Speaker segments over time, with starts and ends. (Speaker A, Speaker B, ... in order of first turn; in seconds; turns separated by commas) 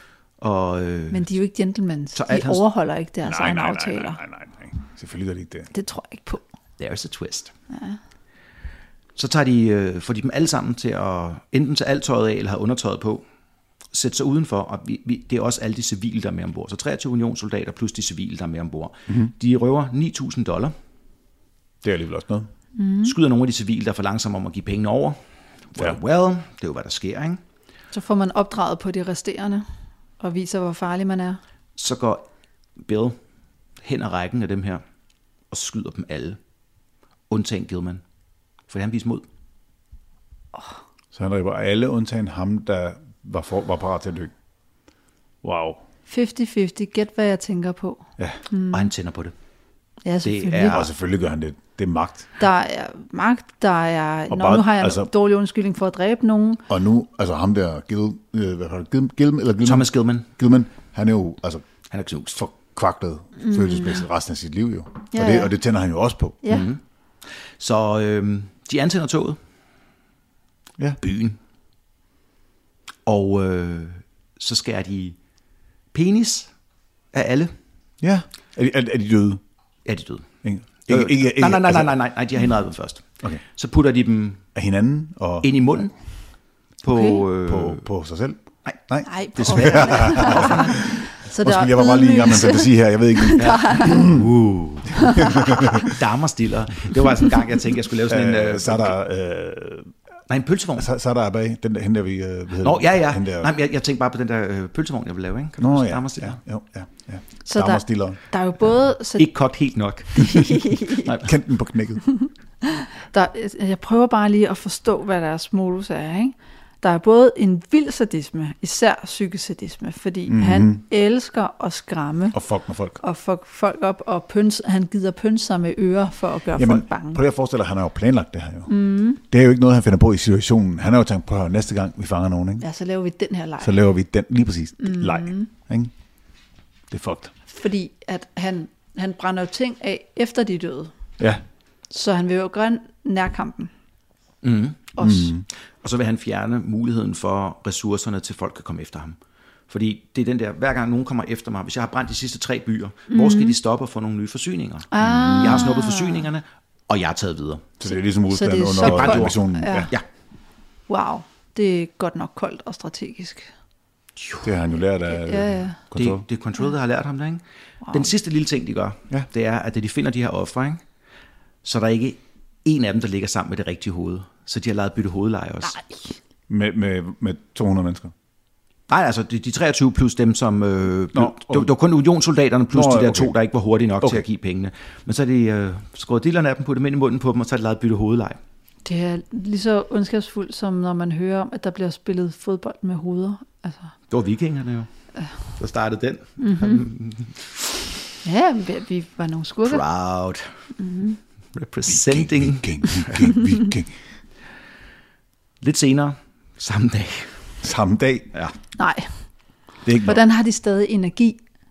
Speaker A: 0.4-1.3, Speaker B: 1.1-4.2, Speaker A: 2.1-2.6, Speaker C: 3.2-5.7, Speaker B: 5.7-6.4, Speaker A: 6.8-7.5, Speaker B: 7.7-8.0, Speaker A: 9.2-13.2, Speaker A: 13.9-20.7, Speaker C: 21.8-22.5, Speaker B: 22.8-23.1, Speaker A: 23.0-25.2, Speaker A: 25.7-27.4, Speaker B: 27.9-29.7, Speaker B: 30.2-31.4, Speaker A: 31.8-32.2, Speaker A: 32.8-33.2, Speaker A: 33.8-34.8, Speaker A: 35.5-36.4, Speaker A: 37.3-38.0, Speaker A: 38.7-39.2, Speaker C: 41.1-44.3, Speaker C: 45.4-45.8, Speaker B: 46.1-48.9, Speaker A: 48.7-49.3, Speaker B: 50.0-50.8, Speaker A: 50.2-50.9, Speaker C: 50.7-52.3, Speaker B: 52.4-56.6, Speaker C: 54.3-55.1, Speaker C: 56.7-61.6, Speaker A: 59.6-60.3, Speaker A: 61.9-62.5, Speaker C: 62.4-66.4, Speaker B: 63.4-64.0, Speaker B: 65.1-65.5, Speaker A: 66.5-66.8, Speaker A: 67.6-69.4, Speaker A: 71.0-71.4, Speaker A: 73.1-75.2, Speaker A: 75.9-76.5, Speaker A: 77.1-77.5, Speaker C: 78.0-79.4, Speaker A: 79.8-80.3, Speaker C: 80.4-82.0, Speaker A: 80.8-84.4, Speaker C: 84.5-85.5, Speaker A: 85.4-85.9, Speaker A: 86.8-87.9, Speaker B: 86.9-87.2, Speaker C: 87.5-94.3, Speaker B: 89.1-94.1, Speaker A: 89.3-90.8, Speaker A: 93.4-99.0, Speaker C: 95.0-95.9, Speaker B: 95.0-95.3, Speaker C: 98.1-99.9, Speaker A: 100.3-100.9, Speaker C: 100.8-103.5, Speaker A: 102.6-106.4, Speaker C: 105.6-108.2, Speaker B: 107.5-109.3, Speaker A: 109.2-111.3, Speaker B: 110.2-111.1, Speaker C: 111.2-112.1, Speaker B: 112.1-122.4, Speaker C: 120.3-120.8, Speaker C: 122.3-123.0, Speaker B: 123.0-127.2, Speaker C: 126.5-128.7, Speaker B: 128.7-129.2, Speaker C: 129.2-132.7, Speaker B: 132.6-133.8, Speaker C: 133.6-135.9, Speaker B: 134.8-135.5, Speaker C: 136.9-137.3, Speaker B: 137.5-140.9, Speaker B: 141.9-143.7, Speaker A: 144.4-145.0, Speaker B: 145.0-145.3, Speaker C: 145.0-145.4, Speaker A: 145.8-149.2, Speaker A: 149.7-157.7, Speaker B: 153.1-153.6, Speaker B: 154.9-156.3, Speaker C: 155.0-155.7, Speaker C: 157.8-159.9, Speaker B: 158.3-159.9, Speaker A: 158.8-159.4, Speaker B: 160.9-163.5, Speaker A: 164.2-164.5, Speaker C: 164.4-166.2, Speaker B: 165.1-165.8, Speaker A: 165.9-170.8, Speaker A: 171.6-175.8, Speaker C: 176.5-178.1, Speaker A: 178.9-188.4, Speaker C: 181.1-181.7, Speaker C: 182.7-183.3, Speaker B: 188.8-193.9, Speaker A: 194.1-194.9, Speaker A: 195.6-197.6, Speaker B: 196.4-196.9, Speaker B: 198.2-199.8, Speaker A: 199.7-200.5, Speaker B: 200.8-201.2, Speaker A: 201.5-203.4, Speaker C: 201.9-204.0, Speaker A: 205.6-207.5, Speaker C: 207.6-208.3, Speaker B: 208.8-209.2, Speaker C: 209.8-210.2, Speaker B: 210.0-211.4